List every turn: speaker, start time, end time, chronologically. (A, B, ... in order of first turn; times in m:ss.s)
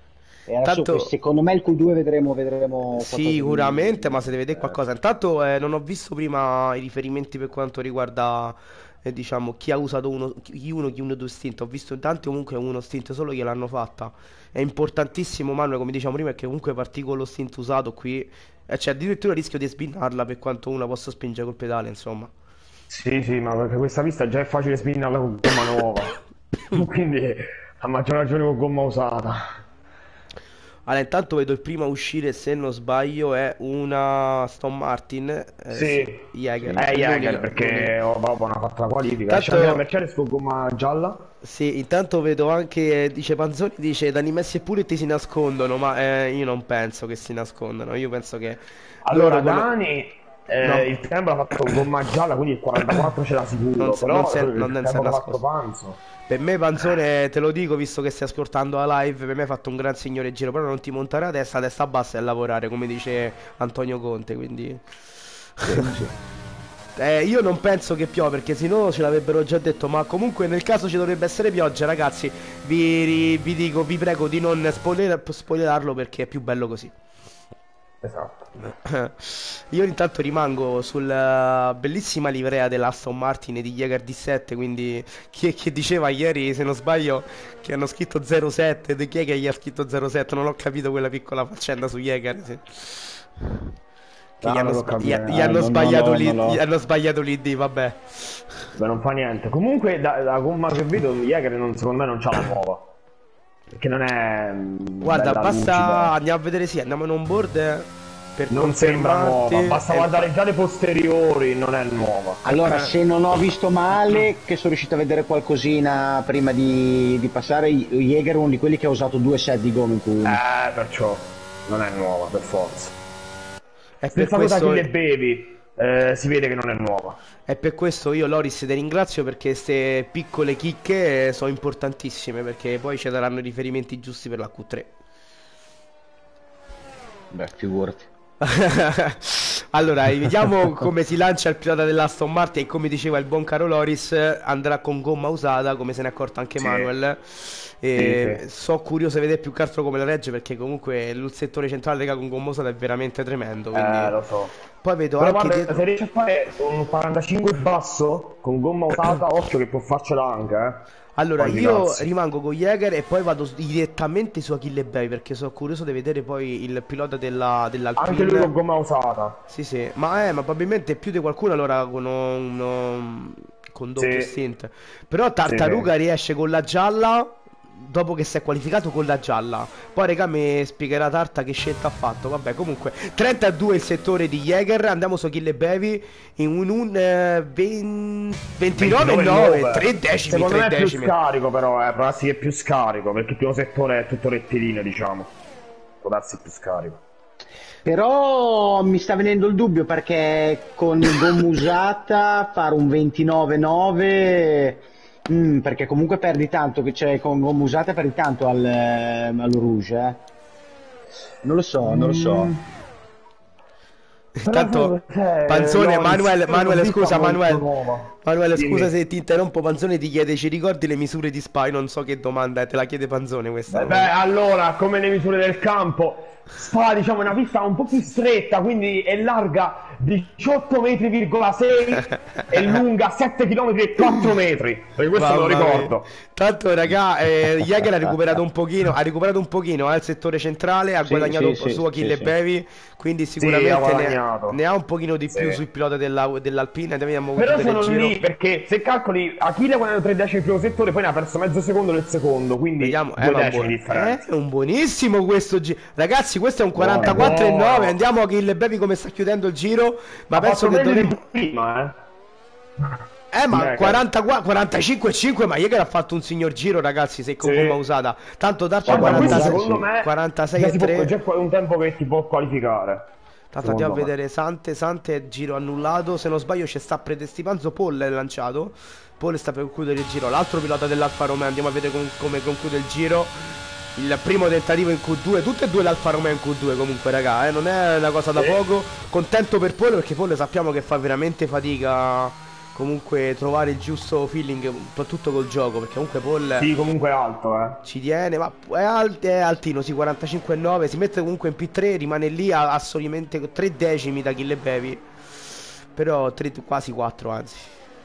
0:00.5-0:04.8 A
0:00.6-0:01.1 B
0:03.0-0:22.3 B
0:22.9-0:26.2 C
0:26.7-0:29.6 C
0:30.9-0:37.9 B
0:35.7-0:41.3 C
0:39.3-0:39.8 B
0:41.4-0:49.7 B
0:49.1-0:56.0 C
0:50.6-0:50.9 B
0:53.8-0:55.4 B
0:56.3-1:04.8 B
1:05.6-1:05.9 B
1:05.7-1:06.1 A
1:07.0-1:16.9 B
1:18.0-1:18.5 C
1:18.6-1:33.2 B
1:34.4-1:35.3 C
1:34.4-1:38.4 B
1:34.6-1:36.6 A
1:38.8-1:42.9 C
1:43.8-1:46.1 C
1:45.0-1:50.3 B
1:48.5-1:52.4 C
1:52.4-2:00.4 A
1:52.5-1:52.8 B
2:00.2-2:03.0 C
2:04.0-2:04.9 B
2:04.1-2:07.2 C
2:07.5-2:14.9 B
2:17.3-2:18.1 A
2:18.4-2:34.2 B
2:26.6-2:26.9 C
2:28.0-2:28.4 C
2:33.7-2:34.5 C
2:34.8-2:35.8 B
2:35.2-2:40.8 C
2:41.2-2:48.5 B
2:41.4-2:42.1 C
2:48.0-2:49.4 C
2:49.5-3:11.1 B
2:54.0-2:54.3 C
2:55.4-2:55.9 C
3:08.8-3:15.3 C
3:16.0-3:17.0 C
3:17.8-3:30.2 A
3:31.4-3:32.5 A
3:31.8-3:32.7 C
3:34.4-3:37.6 B
3:34.4-3:38.9 C
3:38.2-3:44.1 B
3:43.7-3:56.1 C
3:55.2-4:08.2 B
4:01.1-4:02.3 A
4:03.4-4:04.6 C
4:05.3-4:05.6 C
4:07.4-4:14.2 C
4:12.8-4:21.2 B
4:16.8-4:18.0 C
4:20.3-4:22.0 C
4:23.3-4:31.1 B
4:23.5-4:24.0 C
4:27.4-4:27.8 C
4:28.8-4:29.9 A
4:28.9-4:33.1 C
4:33.5-4:56.7 B
4:33.6-4:34.1 C
4:56.6-4:57.8 C
4:57.8-5:05.0 B
5:06.0-5:07.7 B